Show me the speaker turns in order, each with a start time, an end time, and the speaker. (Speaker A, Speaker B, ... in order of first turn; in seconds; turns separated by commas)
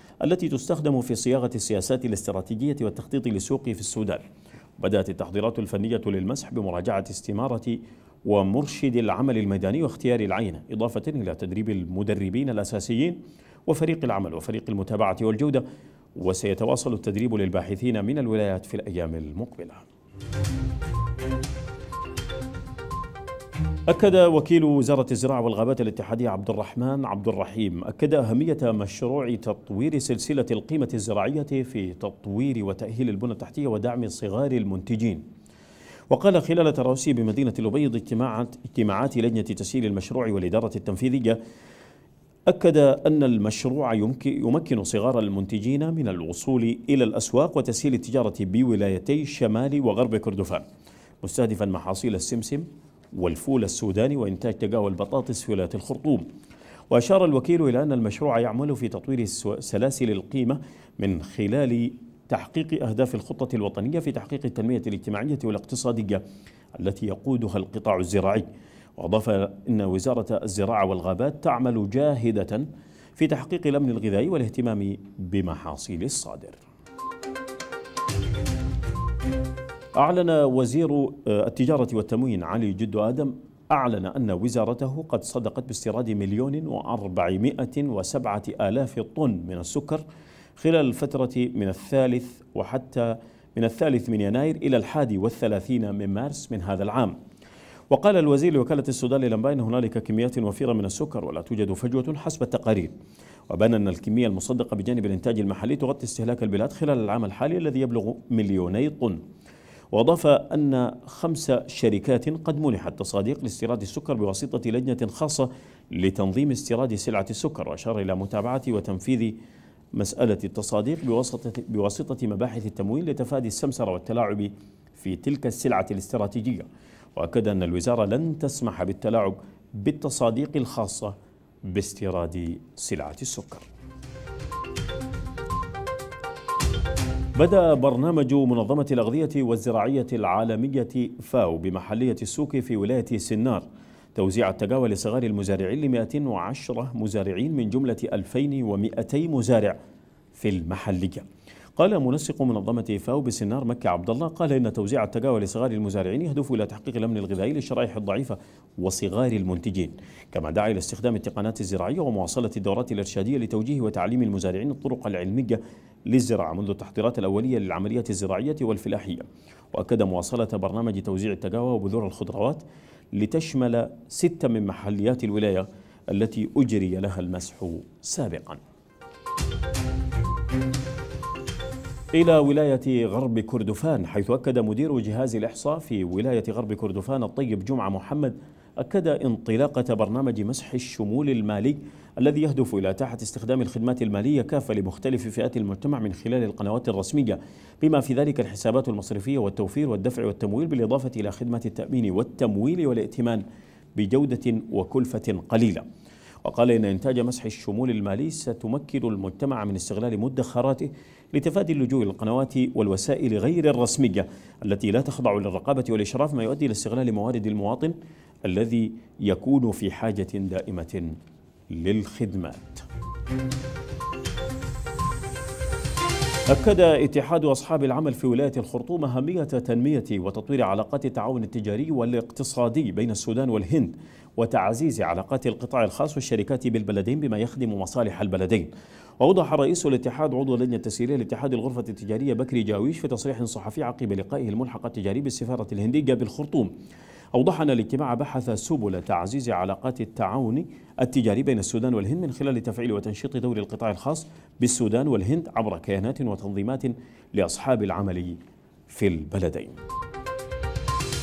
Speaker A: 0.2-4.2, Speaker A: 4.8-15.6, Speaker A: 16.2-19.8, Speaker A: 23.9-35.2, Speaker A: 36.1-41.4, Speaker A: 42.5-50.6, Speaker A: 51.2-52.6, Speaker A: 53.2-56.3, Speaker A: 56.9-66.2, Speaker A: 66.8-68.5, Speaker A: 69.0-76.6, Speaker A: 80.0-90.0, Speaker A: 90.6-97.1, Speaker A: 97.9-102.9, Speaker A: 103.5-109.2, Speaker A: 109.9-119.4, Speaker A: 119.9-131.1, Speaker A: 131.7-133.7, Speaker A: 137.4-149.8, Speaker A: 150.4-151.2, Speaker A: 151.8-178.6, Speaker A: 182.1-203.4, Speaker A: 204.0-205.8, Speaker A: 206.4-217.9, Speaker A: 218.5-221.2, Speaker A: 221.7-222.8, Speaker A: 226.5-238.7, Speaker A: 239.2-246.7, Speaker A: 247.3-258.4, Speaker A: 258.9-259.8